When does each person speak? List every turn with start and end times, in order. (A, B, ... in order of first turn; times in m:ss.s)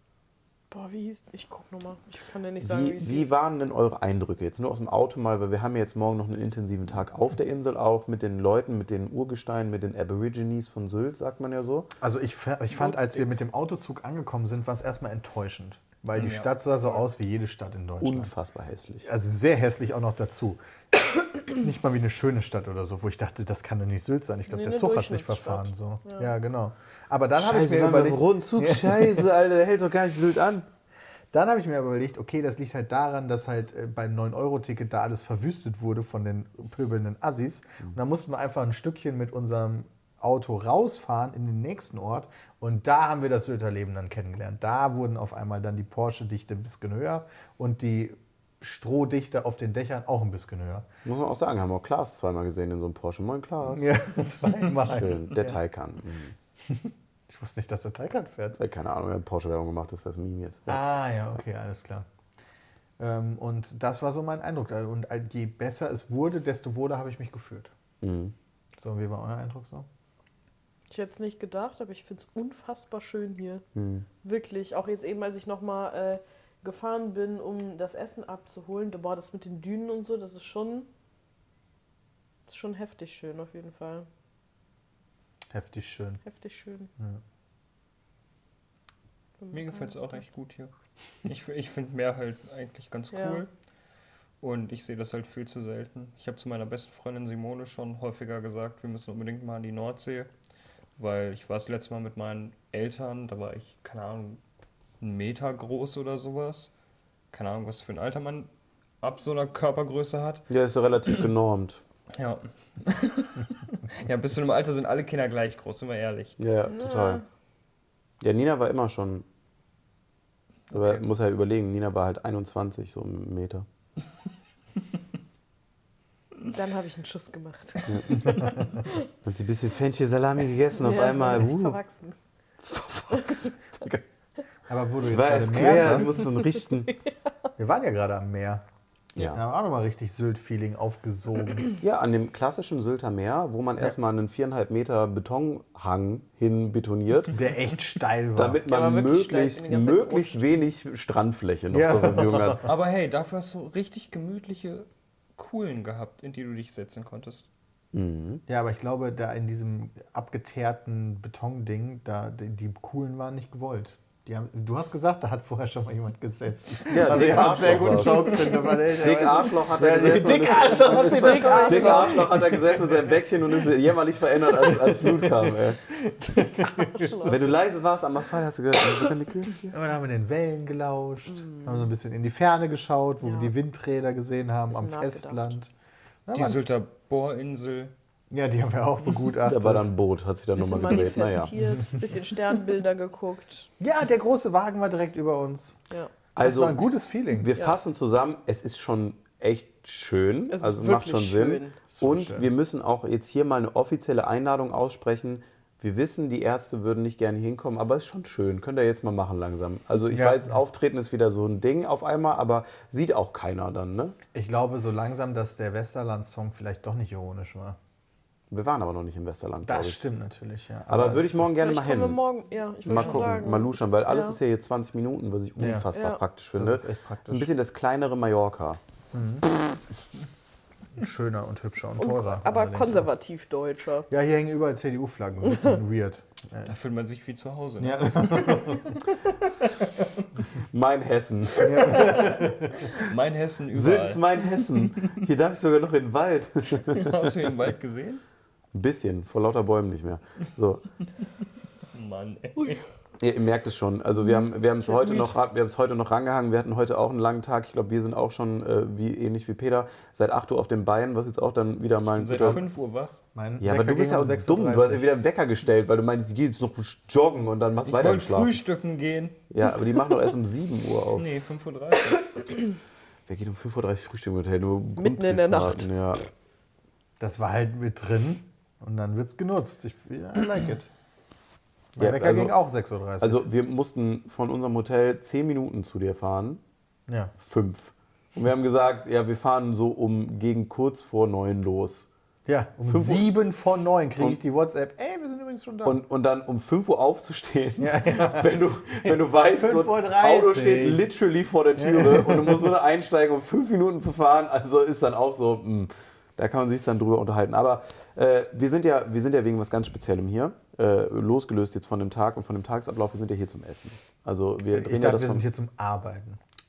0:00.7-0:03.3 A
0:02.6-0:11.9 B
0:12.0-0:18.3 C
0:16.1-0:16.5 D
0:18.0-0:19.1 B
0:19.0-0:29.3 C
0:24.5-0:26.3 A
0:27.4-0:30.6 B
0:31.3-0:50.9 C
0:51.0-0:54.0 B
0:53.6-0:55.6 C
0:54.8-0:56.3 B
0:56.7-0:58.6 C
0:58.6-1:00.8 B
1:00.7-1:02.0 C
1:03.0-1:07.7 C
1:08.0-1:08.3 B
1:08.8-1:09.9 C
1:10.9-1:13.6 A
1:13.7-1:14.0 B
1:14.2-1:20.9 A
1:22.5-1:24.1 A
1:25.5-1:26.2 C
1:26.2-1:26.9 A
1:29.4-1:30.2 A
1:29.5-1:30.7 D
1:31.2-1:33.5 D
1:33.1-1:33.4 A
1:34.4-1:40.3 D
1:41.0-1:44.4 D
1:45.0-1:46.7 D
1:47.3-1:48.5 D
1:49.0-1:50.4 D
1:50.5-1:51.8 B
1:52.2-1:56.4 D
1:56.4-1:57.2 B
1:56.7-1:57.2 A
1:58.2-1:59.2 B
2:00.7-2:01.0 D
2:00.7-2:03.6 B
2:06.5-2:09.0 A
2:07.8-2:08.4 B
2:09.2-2:11.8 B
2:10.7-2:12.2 A
2:12.6-2:14.0 B
2:13.1-2:13.5 A
2:14.7-2:16.2 C
2:15.1-2:16.9 B
2:16.2-2:17.1 A
2:17.6-2:18.6 C
2:19.2-2:21.7 C
2:21.8-2:27.3 B
2:27.3-2:28.6 C
2:28.4-2:32.6 B
2:28.7-2:30.5 A
2:31.7-2:32.7 C
2:32.6-2:37.4 D
2:37.9-2:38.4 B
2:38.5-2:53.2 C
2:46.8-2:55.8 B
2:50.9-2:52.4 A
2:54.5-2:57.4 C
2:56.8-2:57.5 A
2:57.2-2:59.7 B
2:59.7-3:05.7 C
3:01.3-3:01.8 A
3:03.2-3:03.5 A
3:04.7-3:05.5 A
3:06.2-3:06.6 C
3:06.3-3:07.9 D
3:08.3-3:09.9 C
3:09.4-3:11.5 B
3:10.6-3:13.7 A
3:13.8-3:15.7 C
3:16.4-3:34.2 B
3:16.4-3:17.5 C
3:20.5-3:21.8 A
3:21.9-3:22.5 C
3:30.1-3:30.6 C
3:34.3-3:37.8 C
3:38.5-3:40.0 B
3:39.6-3:41.5 C
3:40.9-3:42.2 B
3:41.6-3:44.4 A
3:42.8-3:48.8 B
3:45.6-3:45.9 C
3:45.9-3:46.2 A
3:46.6-3:47.5 C
3:49.1-3:49.4 C
3:51.0-3:53.1 C
3:52.0-3:54.1 A
3:54.1-3:56.7 C
3:56.6-3:59.0 D
3:57.8-3:59.0 C
4:00.7-4:03.0 B
4:01.6-4:02.8 C
4:02.9-4:04.2 D
4:03.7-4:07.5 B
4:06.9-4:08.2 D
4:08.7-4:10.8 B
4:11.9-4:12.8 D
4:13.2-4:22.6 B
4:14.9-4:15.3 A
4:22.0-4:23.2 D
4:23.3-4:25.1 C
4:23.6-4:28.6 B
4:27.8-4:29.4 D
4:29.5-4:31.3 B
4:31.2-4:32.4 D
4:33.3-4:36.2 B
4:35.0-4:35.9 A
4:37.2-4:40.9 C
4:42.0-4:43.4 C
4:42.0-4:42.6 B
4:43.2-4:46.6 B
4:47.1-4:47.3 C
4:47.4-4:52.1 B
4:52.4-4:56.0 C
4:52.9-4:53.3 B
4:55.8-5:15.4 B
4:57.8-5:01.1 C
5:01.8-5:02.8 C
5:14.7-5:16.4 C